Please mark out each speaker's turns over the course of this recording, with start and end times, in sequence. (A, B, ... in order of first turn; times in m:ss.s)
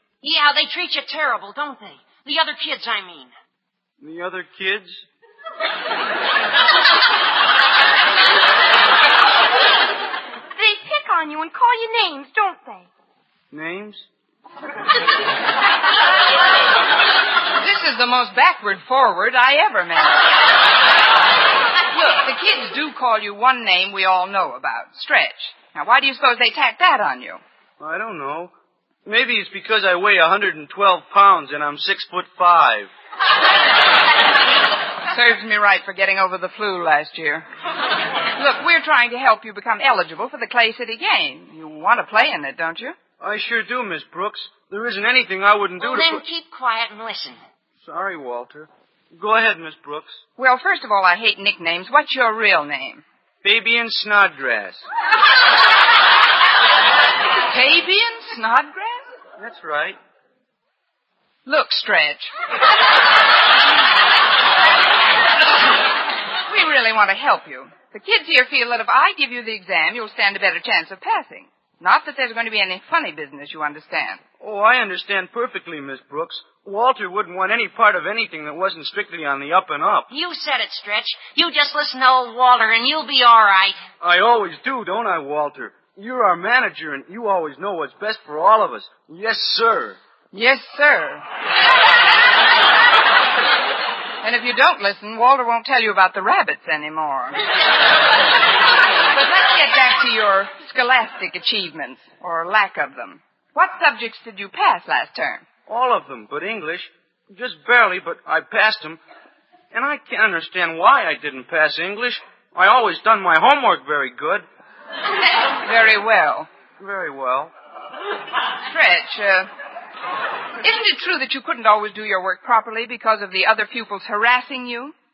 0:00.2-0:03.3 A
0:04.0-0:05.0 B
0:10.6-0:12.9 C
0:13.5-0:14.0 B
0:17.6-0:20.3 D
0:21.9-0:27.4 D
0:27.8-0:28.5 B
0:29.0-0:32.9 B
0:35.1-0:37.4 D
0:38.4-0:43.0 D
0:43.2-0:46.2 B
0:45.8-0:47.4 A
0:47.8-0:50.2 B
0:50.4-0:53.0 D
0:53.4-0:54.8 B
0:57.4-0:59.0 D
0:59.4-1:00.0 B
1:01.4-1:02.3 D
1:06.5-1:14.2 D
1:14.4-1:20.1 B
1:20.1-1:23.8 A
1:24.0-1:30.0 B
1:30.3-1:31.2 D
1:34.2-1:37.4 D
1:39.1-1:45.4 D
1:45.7-1:49.0 B
1:49.7-1:54.4 B
1:55.6-1:56.5 D
1:56.8-1:57.5 B
1:58.6-1:59.5 D
2:00.6-2:04.9 D